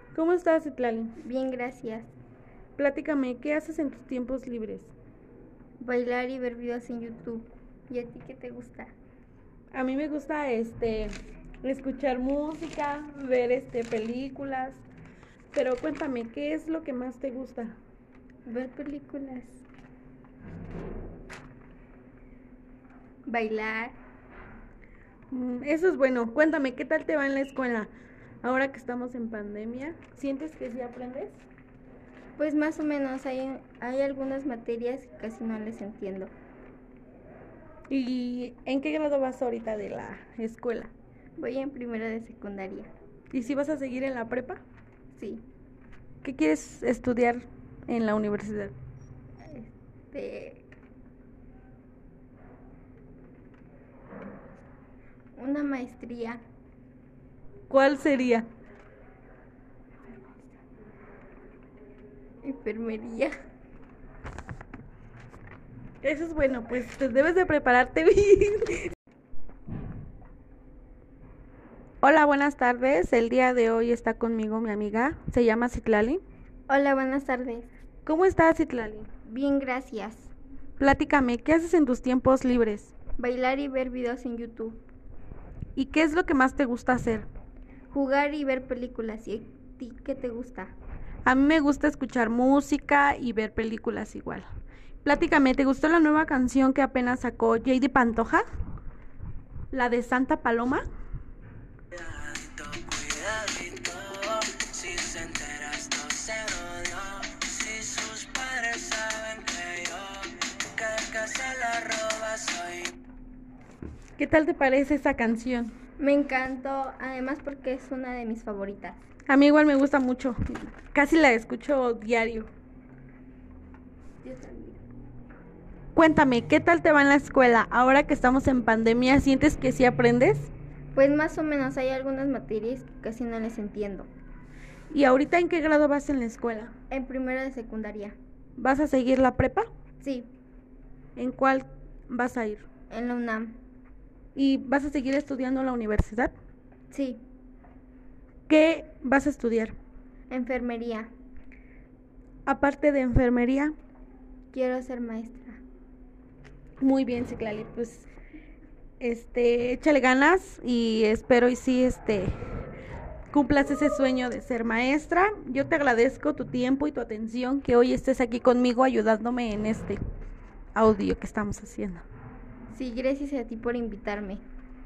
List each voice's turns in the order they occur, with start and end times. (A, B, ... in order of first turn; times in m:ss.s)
0:00.1-0:01.2 A
0:01.2-0:02.1 B
0:02.8-0:04.9 A
0:05.8-0:08.9 B
0:09.7-0:11.1 A
0:11.6-0:14.8 A
0:15.5-0:17.8 A
0:18.5-0:19.6 B
0:23.3-0:24.0 B
0:25.3-0:27.9 A
0:28.4-0:31.4 A
0:32.4-0:36.3 B
0:37.9-0:40.9 A
0:41.4-0:42.9 B
0:43.3-0:44.6 A
0:45.2-0:45.4 B
0:46.2-0:48.7 A
0:49.4-0:50.6 B
0:55.4-0:56.4 B
0:57.7-0:58.5 A
1:00.2-1:00.5 B
1:02.4-1:03.3 B
1:06.0-1:08.9 A
1:12.0-1:16.2 A
1:16.7-1:17.7 B
1:18.0-1:19.1 A
1:19.3-1:20.3 B
1:20.8-1:22.9 A
1:23.2-1:24.8 B
1:25.8-1:27.3 A
1:27.9-1:30.8 B
1:31.2-1:34.5 A
1:35.0-1:38.4 A
1:39.7-1:40.9 A
1:42.0-1:53.0 C
1:54.2-1:55.7 A
1:56.0-1:59.0 B
1:59.3-2:02.5 A
2:04.2-2:04.8 B
2:06.0-2:10.5 A
2:11.0-2:14.1 B
2:14.9-2:16.7 A
2:16.9-2:18.2 B
2:18.6-2:19.7 A
2:20.0-2:20.3 B
2:21.2-2:22.7 A
2:22.9-2:23.6 B
2:24.4-2:26.3 A
2:26.9-2:27.2 B
2:28.5-2:29.8 A
2:30.3-2:31.1 B
2:32.5-2:33.7 A
2:34.5-2:35.6 B
2:36.8-2:38.1 A
2:39.0-2:42.3 A
2:43.3-2:50.0 A
2:50.8-2:52.0 A
2:52.7-2:54.4 B